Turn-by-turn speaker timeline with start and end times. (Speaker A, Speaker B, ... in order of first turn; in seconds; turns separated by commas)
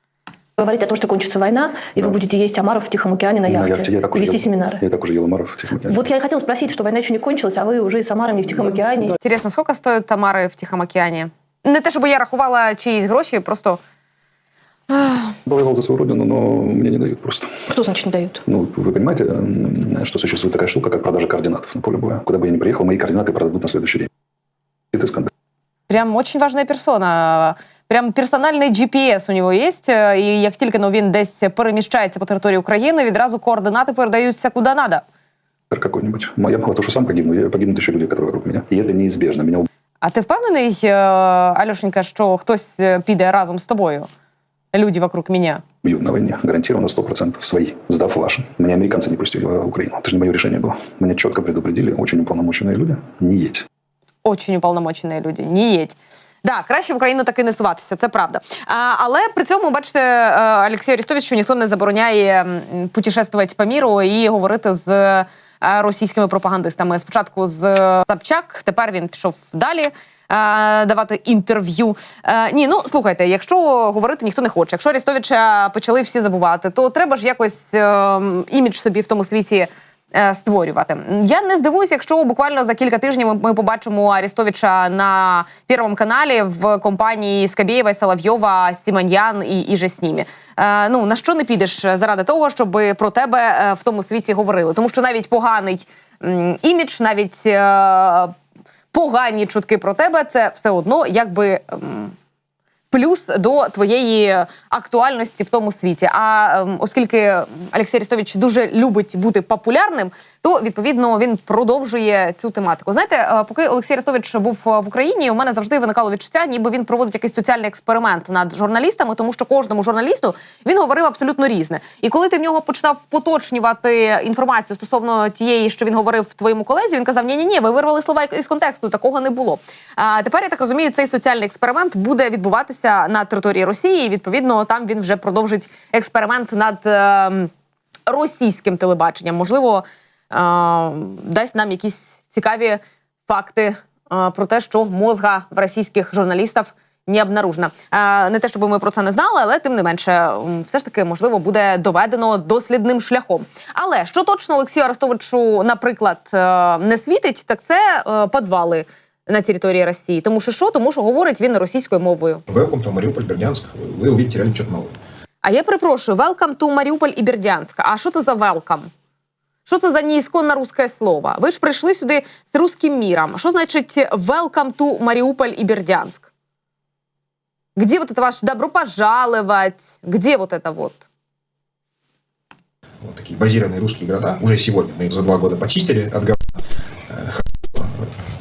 Speaker A: 0.6-4.8, Speaker B: 3.5-6.0, Speaker A: 5.9-9.2, Speaker C: 9.2-13.8, Speaker C: 14.9-15.3, Speaker B: 15.4-17.5, Speaker A: 17.7-18.4, Speaker B: 18.4-24.1, Speaker B: 24.9-25.3, Speaker C: 25.9-35.0, Speaker B: 35.7-39.7, Speaker C: 40.0-44.1, Speaker C: 44.7-45.6, Speaker B: 45.8-53.7, Speaker C: 54.2-98.3, Speaker C: 98.9-102.1, Speaker C: 102.9-137.5, Speaker C: 138.1-162.4, Speaker D: 162.5-164.9, Speaker C: 165.4-168.9, Speaker C: 169.7-176.3, Speaker C: 177.8-181.1, Speaker D: 183.0-186.4, Speaker D: 187.1-187.9